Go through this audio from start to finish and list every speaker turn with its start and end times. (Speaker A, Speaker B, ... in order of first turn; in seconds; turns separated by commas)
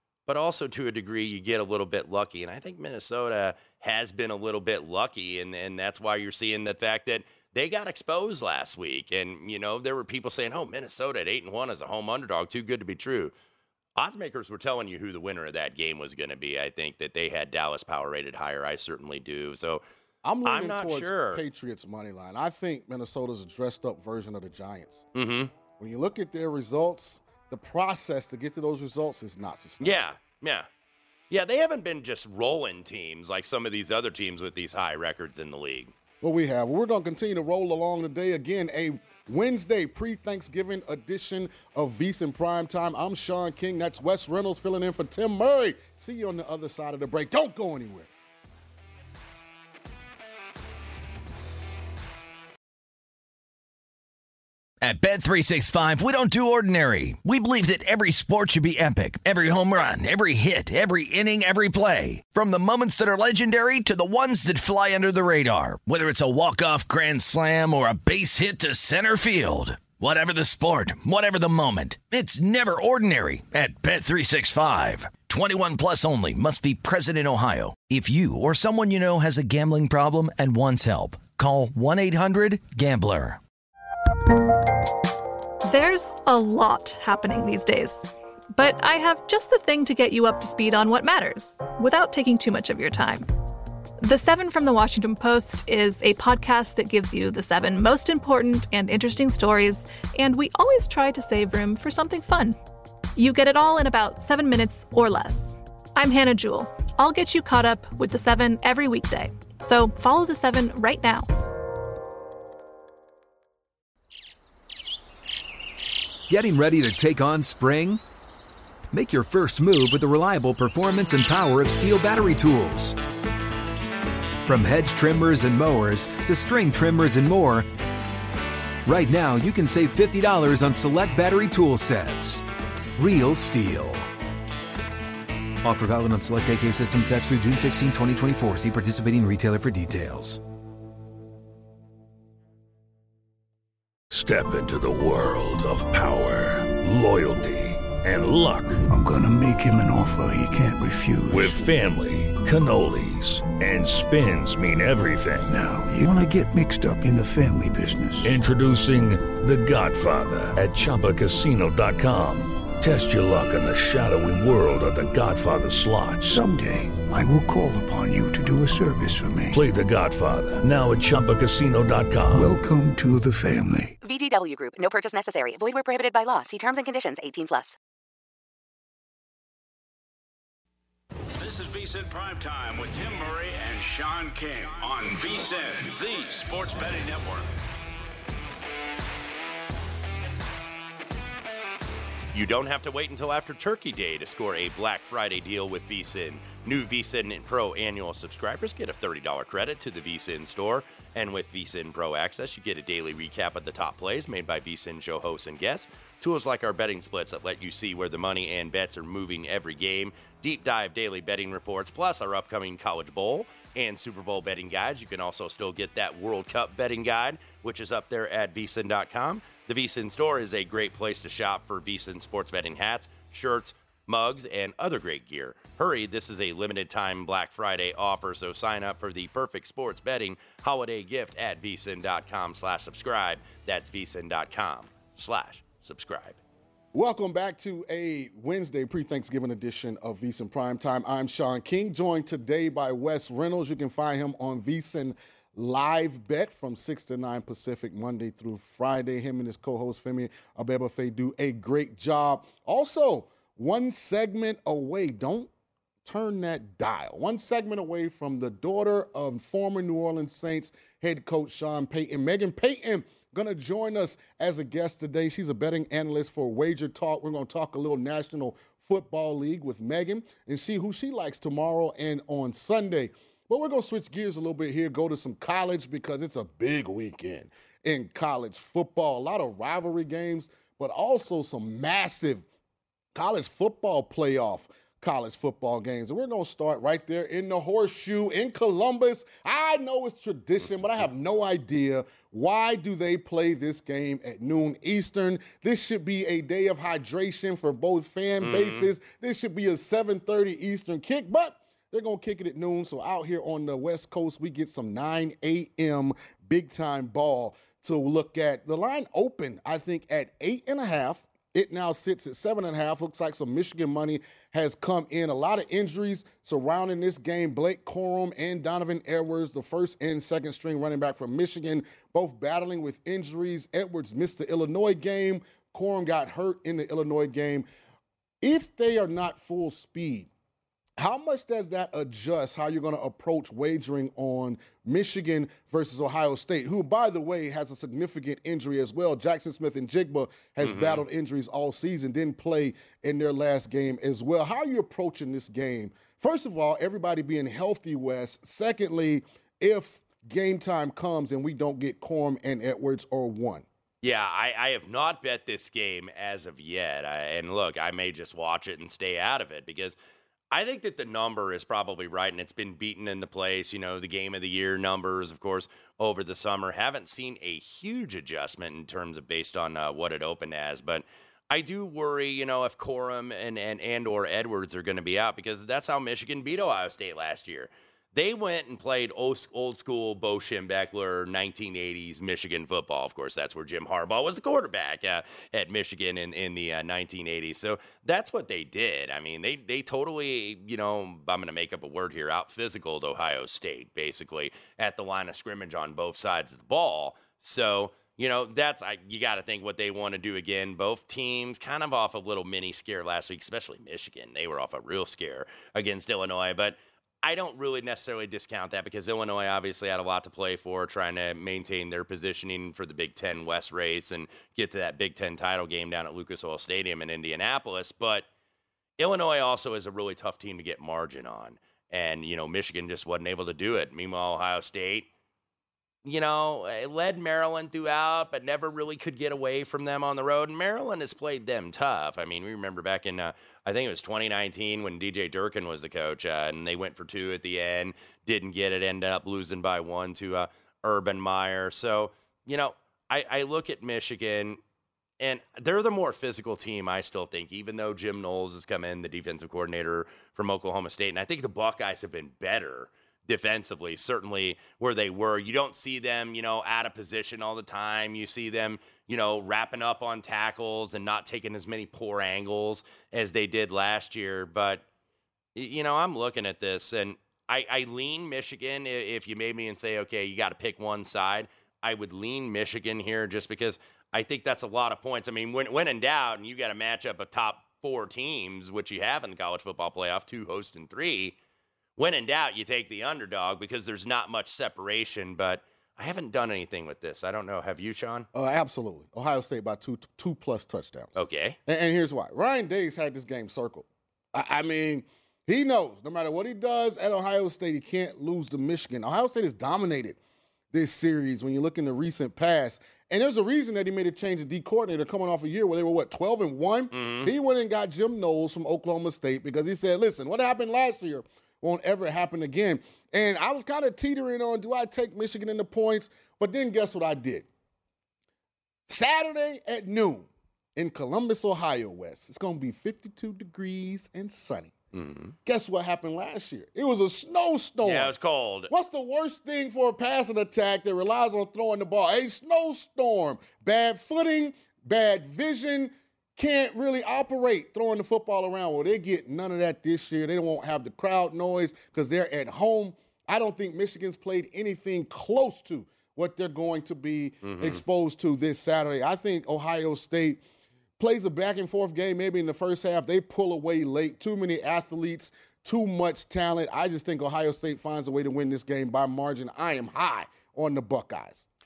Speaker A: 0.3-13.3, Speaker A: 14.0-19.8, Speaker B: 20.2-25.1, Speaker A: 20.4-21.4, Speaker A: 25.1-25.5, Speaker B: 25.8-30.0, Speaker A: 29.8-30.7, Speaker A: 31.3-35.9, Speaker B: 36.2-48.1, Speaker C: 54.8-83.4, Speaker D: 85.7-93.3, Speaker D: 94.0-102.6, Speaker D: 103.2-111.3, Speaker E: 116.3-118.0, Speaker E: 118.9-123.0, Speaker E: 124.5-127.7, Speaker E: 128.9-132.4, Speaker E: 133.0-134.1, Speaker E: 135.6-140.4, Speaker F: 144.1-148.8, Speaker G: 148.9-151.6, Speaker F: 151.3-155.6, Speaker G: 155.5-158.4, Speaker F: 158.2-166.4, Speaker G: 166.2-169.6, Speaker F: 169.5-172.6, Speaker G: 172.3-174.0, Speaker H: 174.0-177.8, Speaker I: 181.3-187.5, Speaker A: 192.3-236.4, Speaker B: 236.9-255.5, Speaker B: 256.1-282.4, Speaker B: 283.1-327.7, Speaker A: 298.4-298.9, Speaker B: 328.4-330.3, Speaker B: 331.0-353.7, Speaker A: 340.6-341.0, Speaker A: 354.0-360.0, Speaker A: 360.5-418.3, Speaker A: 419.0-425.1, Speaker A: 426.1-444.6, Speaker A: 445.2-464.8, Speaker A: 465.6-481.4, Speaker A: 482.0-488.3, Speaker B: 488.3-491.1, Speaker A: 491.1-491.6, Speaker B: 491.7-500.2, Speaker B: 500.7-517.5, Speaker A: 506.9-507.3, Speaker B: 518.9-524.7, Speaker A: 524.9-525.4, Speaker B: 525.5-528.1, Speaker A: 527.8-528.7, Speaker B: 528.7-550.4, Speaker A: 547.4-547.8, Speaker B: 551.0-561.5